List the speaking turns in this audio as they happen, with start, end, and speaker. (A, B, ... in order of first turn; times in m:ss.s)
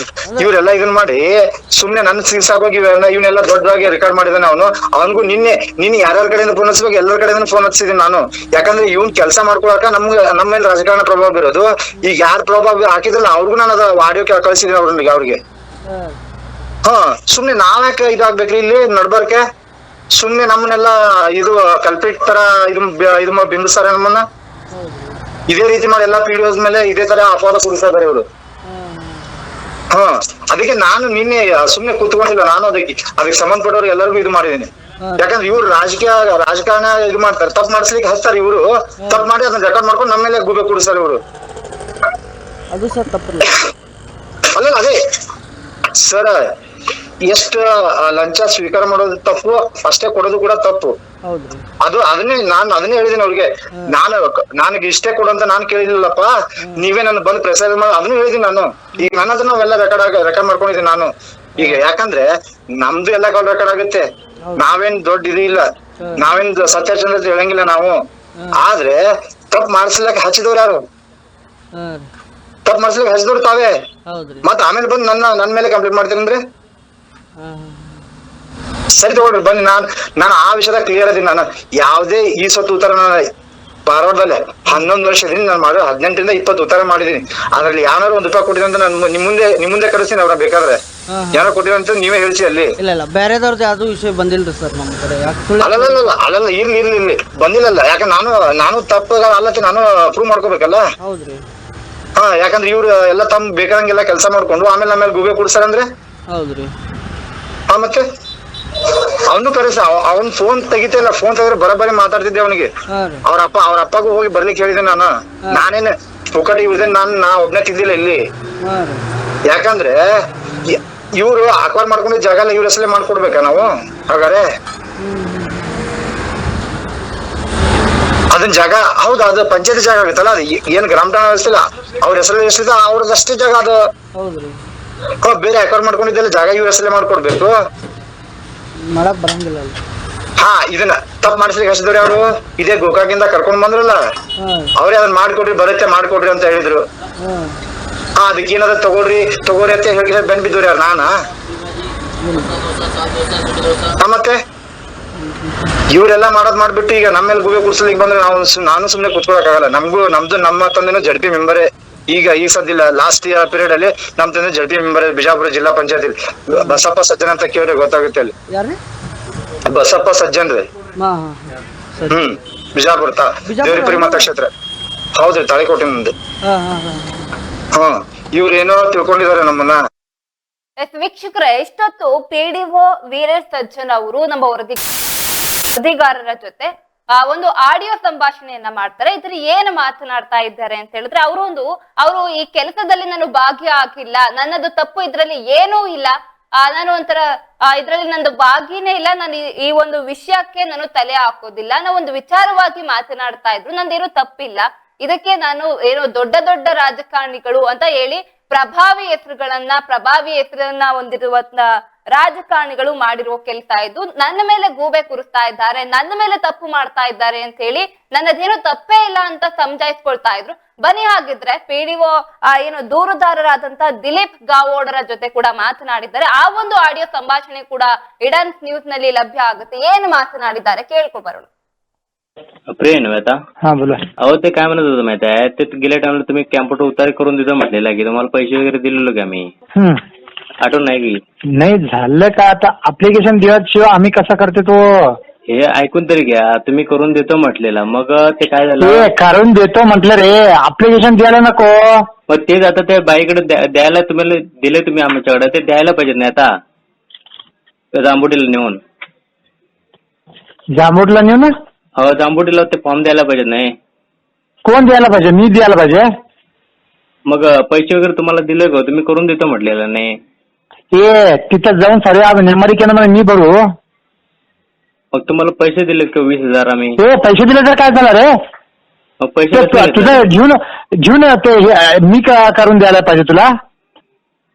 0:00.4-0:15.4 A
0:08.7-0:09.0 B
0:15.9-0:16.2 B
0:16.8-0:19.4 A
0:20.2-0:24.2 A
0:24.7-0:25.2 B
0:25.5-0:28.3 A
0:28.7-0:29.3 B
0:29.9-0:41.2 A
0:35.0-0:35.3 B
0:39.0-0:39.3 B
0:42.7-0:43.5 B
0:44.6-0:45.0 A
0:46.0-0:46.5 A
0:47.3-0:51.0 A
0:51.3-0:51.6 B
0:51.8-1:04.0 A
1:04.6-1:08.0 A
1:06.0-1:06.3 B
1:08.4-1:08.6 B
1:08.6-1:10.8 A
1:11.8-1:12.1 B
1:12.7-1:13.8 A
1:14.1-1:14.5 B
1:14.4-1:16.4 A
1:17.4-1:18.0 B
1:19.0-1:23.3 A
1:23.9-1:30.8 A
1:31.1-1:31.5 B
1:31.3-1:32.8 A
1:32.8-1:36.1 B
1:35.6-1:40.9 A
1:41.0-1:41.4 B
1:42.2-1:45.9 A
1:46.3-1:46.7 B
1:47.7-1:48.0 A
1:48.8-1:52.7 A
1:52.9-1:53.2 B
1:53.2-1:58.2 A
1:58.6-1:59.0 B
1:59.5-2:04.5 A
2:05.0-2:05.8 B
2:08.3-2:13.9 A
2:14.2-2:14.6 B
2:15.2-2:17.6 A
2:18.9-2:19.8 B
2:20.4-2:24.0 A
2:24.4-2:24.7 B
2:24.8-2:26.8 A
2:27.2-2:27.6 B
2:28.2-2:31.1 A
2:32.2-2:32.6 B
2:34.0-2:34.4 A
2:35.2-2:35.6 B
2:35.9-2:48.3 A
2:46.5-2:46.8 B
2:48.5-2:48.8 B
2:49.7-2:50.7 A
2:51.0-2:52.2 B
2:52.1-2:54.5 A
2:53.5-2:54.3 B
2:55.2-2:56.1 A
2:56.4-2:57.3 B
2:57.7-2:59.8 A
3:00.8-3:04.8 C
3:05.8-3:51.5 C
3:52.7-3:53.4 D
3:53.6-3:54.0 E
3:54.2-3:59.5 D
3:59.8-4:00.0 E
4:00.6-4:01.2 D
4:01.6-4:05.2 E
4:05.5-4:09.1 D
4:08.8-4:11.8 E
4:12.3-4:16.5 D
4:18.0-4:18.8 D
4:20.8-4:21.5 E
4:22.0-4:23.7 D
4:24.6-4:26.1 E
4:27.3-4:30.1 D
4:31.0-4:33.6 E
4:35.1-4:37.0 D
4:37.0-4:38.3 E
4:39.2-4:40.3 D
4:39.5-4:43.5 E